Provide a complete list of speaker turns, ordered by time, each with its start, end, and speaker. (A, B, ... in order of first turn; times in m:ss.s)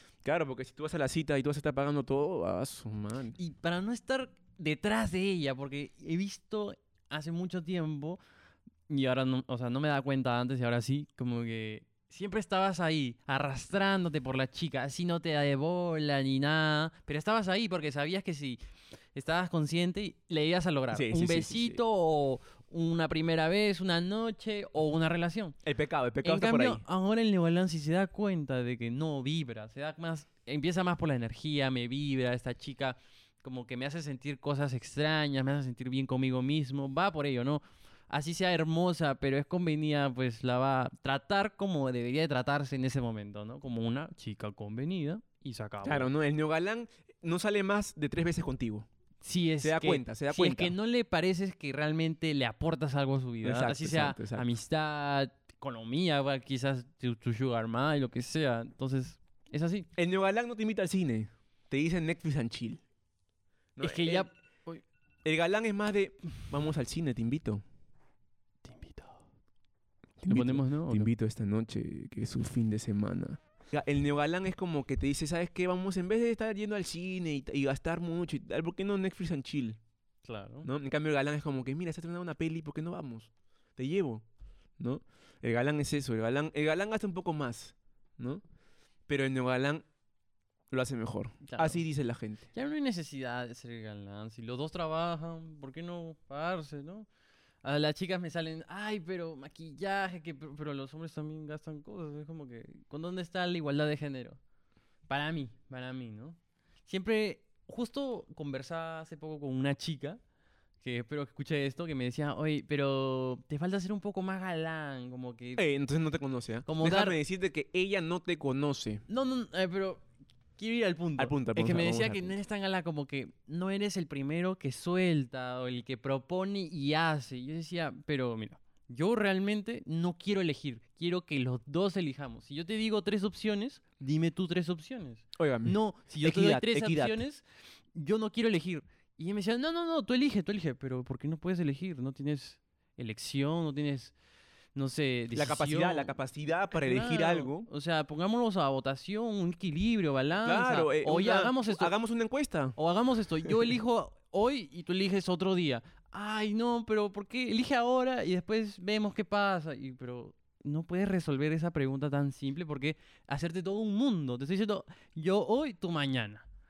0:00.2-0:03.4 A
0:03.4-0:08.2 B
0:08.9-0:18.6 B
0:19.2-0:25.6 B
0:20.9-0:21.8 A
0:25.6-0:26.8 A
0:26.2-0:46.1 B
0:45.8-0:48.9 A
0:49.2-0:59.9 B
0:49.6-0:50.8 A
0:53.4-0:54.5 A
1:00.0-1:02.8 A
1:03.8-1:04.3 A
1:03.8-1:04.8 B
1:05.2-1:07.6 A
1:08.6-1:09.2 B
1:10.2-1:19.8 A
1:10.3-1:11.1 B
1:20.2-1:20.7 B
1:20.6-1:24.2 A
1:24.8-1:28.4 A
1:29.1-1:29.8 A
1:30.7-1:32.5 A
1:31.4-1:31.8 B
1:32.5-1:37.1 B
1:37.6-1:44.4 B
1:45.1-1:50.2 B
1:50.8-1:55.6 B
1:55.6-1:59.0 A
1:56.7-1:57.2 B
1:59.1-2:00.0 B
2:00.6-2:24.2 B
2:01.2-2:02.4 A
2:15.4-2:17.2 A
2:24.8-2:26.2 B
2:25.4-2:27.7 A
2:26.7-2:31.9 B
2:30.4-2:32.8 A
2:32.8-2:46.5 B
2:33.4-2:33.7 A